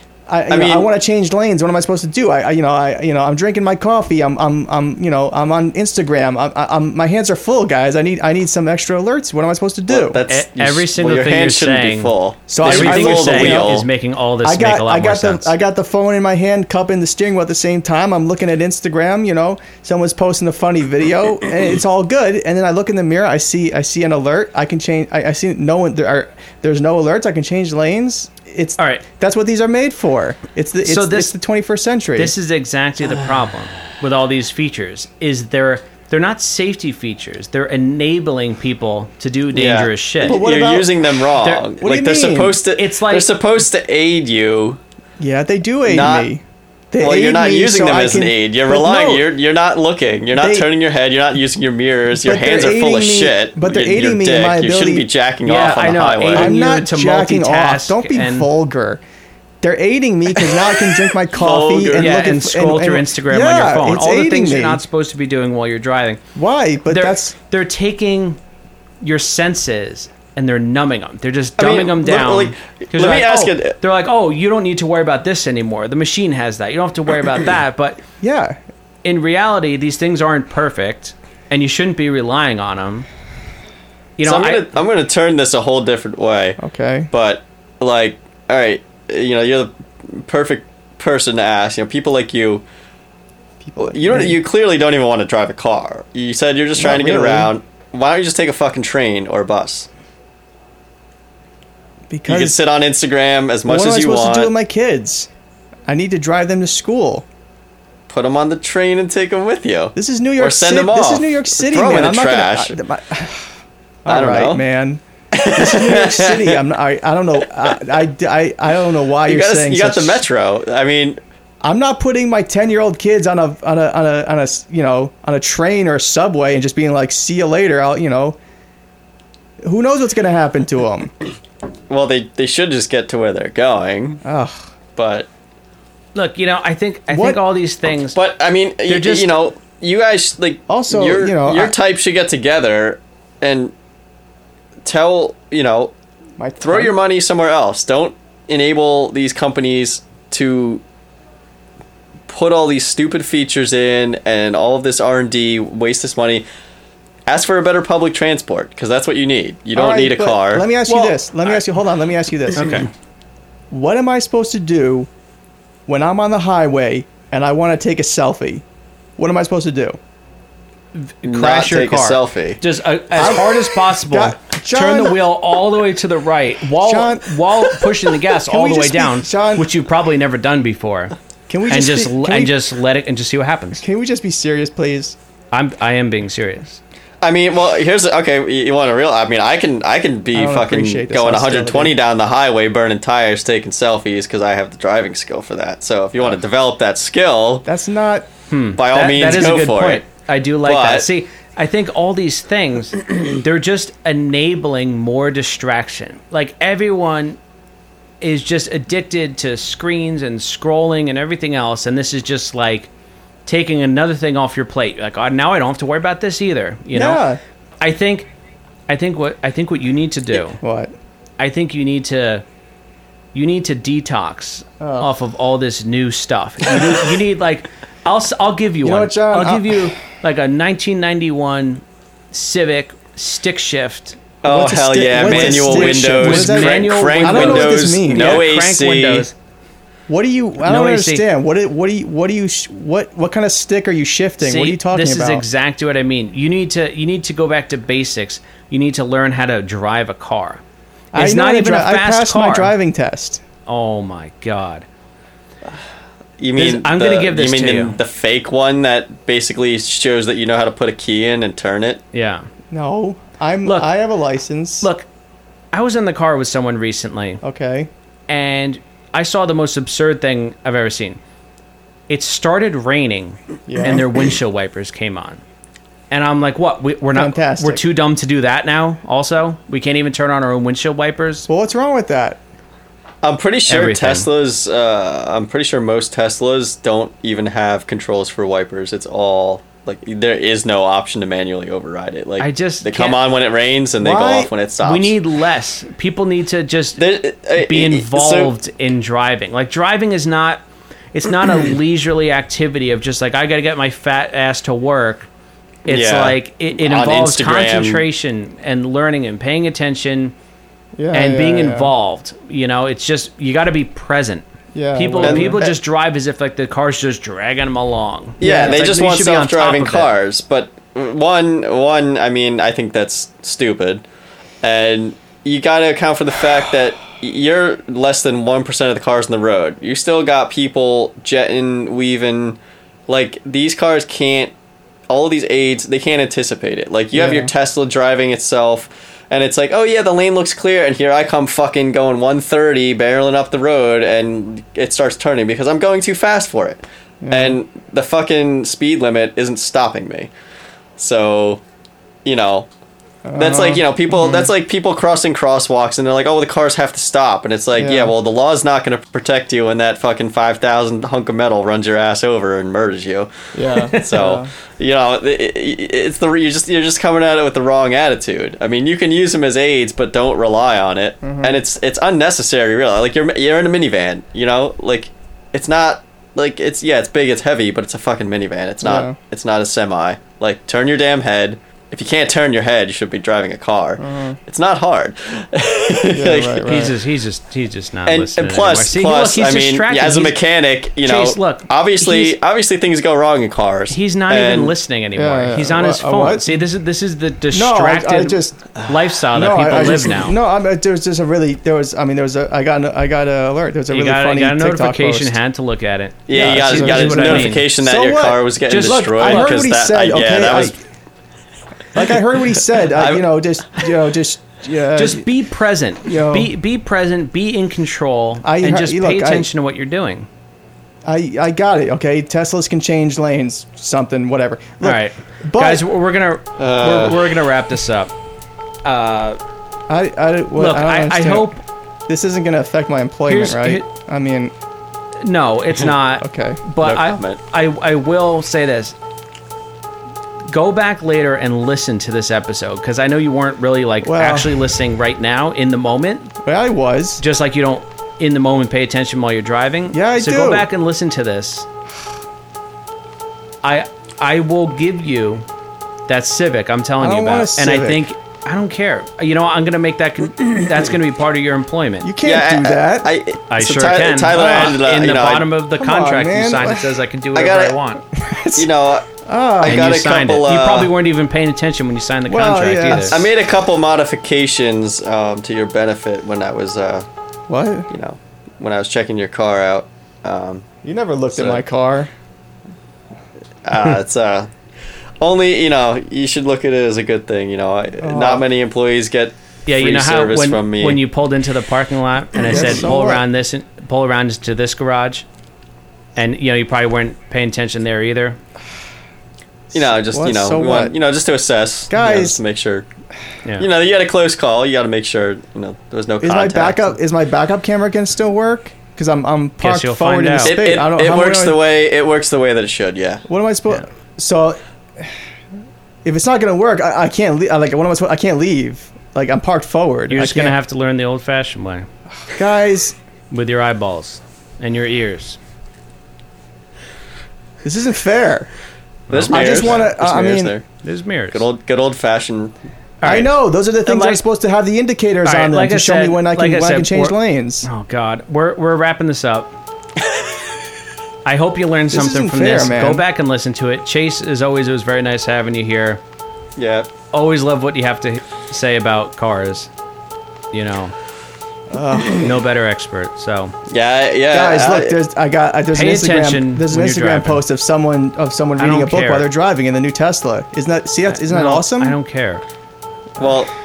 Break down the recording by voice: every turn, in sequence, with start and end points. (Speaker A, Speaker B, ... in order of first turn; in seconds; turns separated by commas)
Speaker A: 0.3-10.2, Speaker B: 0.5-0.9, Speaker B: 9.9-13.9, Speaker C: 10.3-15.5, Speaker A: 12.5-13.7, Speaker A: 14.4-32.3, Speaker C: 28.8-29.0, Speaker C: 30.8-31.3, Speaker C: 32.1-40.4, Speaker B: 39.5-44.8, Speaker A: 40.2-41.1, Speaker C: 41.4-41.6, Speaker A: 41.8-42.6, Speaker C: 42.7-43.3, Speaker A: 45.2-49.3, Speaker B: 45.9-46.3, Speaker B: 47.0-56.6, Speaker A: 50.3-50.7, Speaker A: 52.1-55.1, Speaker C: 55.4-58.5, Speaker A: 56.3-59.0, Speaker A: 59.6-64.8, Speaker B: 61.3-62.2, Speaker C: 62.0-66.2, Speaker A: 66.3-67.3, Speaker C: 66.8-68.4, Speaker C: 69.0-78.0, Speaker B: 71.6-73.7, Speaker A: 78.2-78.6, Speaker C: 79.0-83.0, Speaker C: 84.2-84.6, Speaker B: 84.2-86.6, Speaker A: 86.6-87.1, Speaker B: 87.1-92.6, Speaker A: 93.6-94.4, Speaker B: 93.8-99.9, Speaker A: 96.8-97.5, Speaker A: 102.1-102.6, Speaker B: 102.3-104.5, Speaker A: 103.7-105.3, Speaker A: 105.9-107.2, Speaker B: 108.1-112.8, Speaker A: 110.0-113.5, Speaker A: 114.0-120.2, Speaker B: 114.1-114.6, Speaker B: 115.3-116.6, Speaker B: 119.3-121.2, Speaker A: 121.6-128.4, Speaker A: 129.6-131.1, Speaker B: 131.9-134.2, Speaker A: 134.2-134.7, Speaker B: 134.9-135.3, Speaker C: 136.1-138.2, Speaker A: 137.1-137.4, Speaker B: 138.1-143.7, Speaker C: 138.9-139.3, Speaker A: 140.7-141.8, Speaker B: 144.8-145.9, Speaker A: 146.4-146.9, Speaker B: 146.6-150.8, Speaker B: 152.3-156.4, Speaker B: 157.3-160.7, Speaker A: 159.7-162.8, Speaker C: 160.9-161.2, Speaker C: 162.5-162.9, Speaker A: 163.7-165.1, Speaker A: 165.9-168.6, Speaker A: 169.2-170.0, Speaker C: 170.9-181.1, Speaker B: 171.2-172.6, Speaker A: 173.1-175.2, Speaker A: 176.8-177.5, Speaker A: 178.3-179.7, Speaker A: 181.5-182.6, Speaker C: 181.7-183.8, Speaker A: 183.8-185.2, Speaker C: 185.5-186.8, Speaker B: 187.2-197.7, Speaker A: 190.3-191.9, Speaker A: 197.6-198.3, Speaker C: 198.5-207.4, Speaker B: 198.8-200.1, Speaker B: 200.6-201.1, Speaker C: 208.2-212.9, Speaker C: 213.4-217.2, Speaker A: 216.9-217.4, Speaker C: 217.8-218.3, Speaker C: 218.9-220.6, Speaker A: 220.5-220.9, Speaker C: 221.4-222.4, Speaker C: 223.3-234.2, Speaker A: 224.8-225.1, Speaker A: 228.8-229.9, Speaker B: 234.4-239.3, Speaker A: 234.4-238.4, Speaker C: 235.2-239.3, Speaker A: 240.1-245.4, Speaker C: 240.6-241.2, Speaker C: 244.4-250.6, Speaker A: 251.1-253.4, Speaker C: 251.1-252.7, Speaker C: 253.7-254.8, Speaker B: 256.4-262.0, Speaker C: 256.6-258.0, Speaker C: 262.1-262.5, Speaker A: 262.7-264.9, Speaker C: 263.6-263.9, Speaker C: 264.8-265.1, Speaker C: 265.7-267.4, Speaker A: 267.4-267.9, Speaker C: 268.3-271.2, Speaker C: 272.1-275.4, Speaker A: 273.7-274.1, Speaker C: 276.1-281.5, Speaker A: 277.1-277.8, Speaker A: 281.5-282.4, Speaker B: 283.2-295.2, Speaker C: 283.7-284.3, Speaker C: 292.4-293.2, Speaker A: 294.0-294.5, Speaker C: 294.8-297.0, Speaker B: 297.0-298.5, Speaker C: 297.5-305.3, Speaker B: 305.9-308.0, Speaker C: 305.9-310.3, Speaker A: 311.0-311.9, Speaker C: 311.1-320.1, Speaker A: 314.7-315.6, Speaker B: 315.2-315.8, Speaker B: 318.4-324.0, Speaker A: 318.4-318.8, Speaker B: 324.6-334.5, Speaker B: 335.1-350.3, Speaker A: 337.1-337.5, Speaker A: 347.2-347.6, Speaker B: 351.0-351.6, Speaker B: 352.2-352.7, Speaker A: 353.2-354.5, Speaker B: 353.4-363.3, Speaker A: 357.8-358.1, Speaker A: 363.5-364.5, Speaker C: 363.7-364.2, Speaker B: 363.9-386.8, Speaker A: 371.2-371.6, Speaker A: 378.8-379.2, Speaker A: 384.0-384.4, Speaker A: 386.1-386.9, Speaker C: 386.6-390.4, Speaker B: 388.1-394.8, Speaker C: 391.0-392.4, Speaker C: 393.9-400.4, Speaker A: 395.1-396.6, Speaker A: 397.5-398.7, Speaker A: 399.3-405.4, Speaker C: 403.9-407.7, Speaker B: 406.3-410.8, Speaker A: 406.4-410.8, Speaker C: 408.6-409.6, Speaker A: 411.9-415.2, Speaker B: 412.9-413.3, Speaker C: 414.9-420.3, Speaker A: 416.1-416.5, Speaker A: 418.4-419.5, Speaker A: 421.1-425.8, Speaker C: 424.8-428.1, Speaker B: 426.6-427.3, Speaker C: 428.8-429.4, Speaker A: 429.9-431.5, Speaker C: 430.6-431.6, Speaker A: 432.1-434.5, Speaker C: 433.2-433.9, Speaker C: 435.2-438.9, Speaker A: 436.2-436.6, Speaker B: 436.8-437.4, Speaker C: 440.5-446.3, Speaker A: 444.0-444.6, Speaker A: 446.4-447.2, Speaker C: 447.2-451.7, Speaker A: 449.9-450.7, Speaker C: 453.6-455.4, Speaker C: 456.1-462.1, Speaker A: 457.0-458.0, Speaker A: 462.0-463.1, Speaker B: 462.2-465.5, Speaker C: 463.5-468.0, Speaker A: 464.3-464.7, Speaker A: 465.8-466.9, Speaker B: 467.3-467.8, Speaker A: 468.1-468.7, Speaker B: 468.6-469.1, Speaker A: 469.2-469.9, Speaker B: 469.6-470.9, Speaker C: 469.6-473.2, Speaker A: 472.3-473.3, Speaker B: 472.9-477.1, Speaker A: 477.5-477.9, Speaker B: 477.9-480.6, Speaker A: 480.8-482.1, Speaker B: 481.3-481.6, Speaker B: 483.6-484.5, Speaker B: 485.2-491.0, Speaker A: 488.0-488.4, Speaker C: 489.7-495.2, Speaker A: 492.5-493.2, Speaker C: 496.1-498.4, Speaker A: 499.7-500.9, Speaker B: 499.7-502.9, Speaker A: 501.9-502.4, Speaker B: 503.6-506.9, Speaker A: 506.2-511.6, Speaker C: 509.6-510.6, Speaker B: 510.4-513.2, Speaker A: 513.2-515.1, Speaker A: 516.0-520.5, Speaker C: 520.1-521.9, Speaker A: 522.3-523.0, Speaker C: 523.3-525.4, Speaker A: 527.6-528.5, Speaker C: 529.1-529.9, Speaker B: 529.1-530.6, Speaker A: 529.3-530.5, Speaker C: 530.8-531.5, Speaker B: 531.3-532.5, Speaker C: 533.0-534.2, Speaker A: 533.0-537.7, Speaker C: 535.2-539.5, Speaker C: 541.2-546.0, Speaker A: 541.9-543.0, Speaker B: 546.6-546.9, Speaker C: 547.1-549.7, Speaker C: 550.5-550.9, Speaker A: 551.7-552.3, Speaker C: 552.1-553.5, Speaker B: 553.7-555.0, Speaker A: 554.3-562.0, Speaker C: 555.7-557.4, Speaker C: 558.6-559.3, Speaker C: 561.1-562.4, Speaker B: 563.2-563.5